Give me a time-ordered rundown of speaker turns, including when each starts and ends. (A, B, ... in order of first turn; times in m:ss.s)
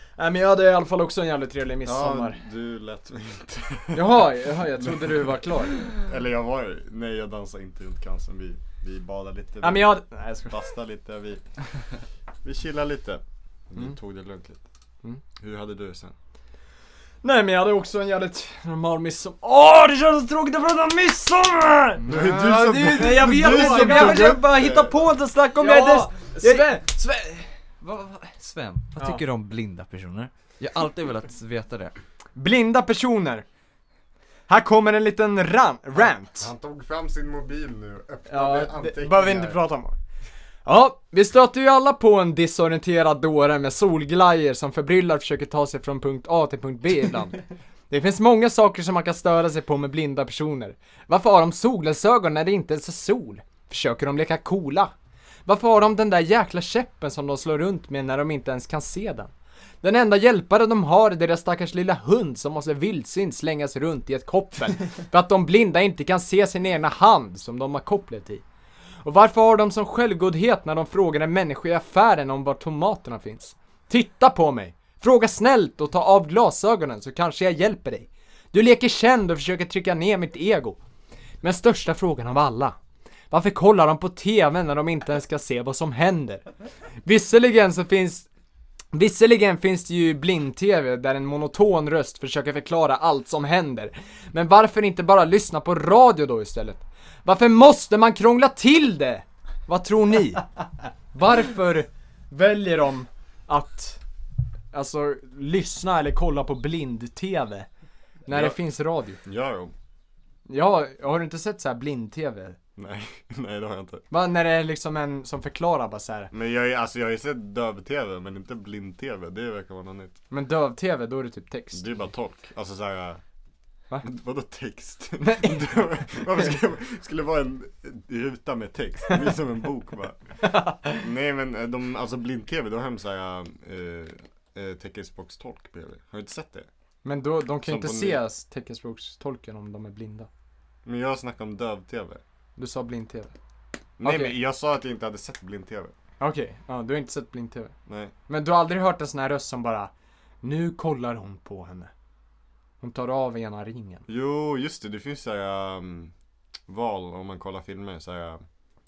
0:00.2-0:02.4 A
0:01.8-0:05.3 B
0:03.9-0:05.9 A
0:05.9-0:11.5 B
0:09.6-0:10.6 A
0:12.4-0:14.7 B
0:15.4-0:16.2 B
0:17.2-0:26.9 A
0:22.0-0:24.4 C
0:22.1-0:25.1 B
0:25.6-0:32.0 C
0:29.0-0:29.2 A
0:32.4-0:33.4 A
0:34.5-0:36.5 A
0:36.0-0:39.6 B
0:38.3-0:40.0 A
0:40.6-0:54.9 A
0:55.5-1:08.4 A
1:09.0-1:20.8 A
1:21.4-1:22.8 A
1:23.3-1:26.5 A
1:27.0-1:28.3 A
1:28.9-1:40.5 A
1:41.1-1:44.0 A
1:44.7-1:47.7 A
1:48.3-1:49.2 A
1:48.3-1:48.6 B
1:49.2-1:49.7 B
1:50.5-1:52.6 A
1:52.8-1:54.0 B
1:54.1-1:56.3 A
1:56.3-2:00.2 B
2:00.3-2:01.8 A
2:01.7-2:03.2 B
2:04.0-2:10.3 B
2:05.2-2:06.2 A
2:10.4-2:11.0 A
2:11.0-2:16.7 B
2:17.0-2:20.3 A
2:17.6-2:18.2 B
2:20.8-2:22.2 B
2:22.6-2:23.3 A
2:24.0-2:25.9 B
2:24.0-2:24.4 A
2:26.2-2:27.7 A
2:27.9-2:28.1 B
2:28.3-2:29.9 A
2:30.4-2:31.9 A
2:32.8-2:34.1 A
2:34.1-2:36.1 B
2:36.7-2:38.4 B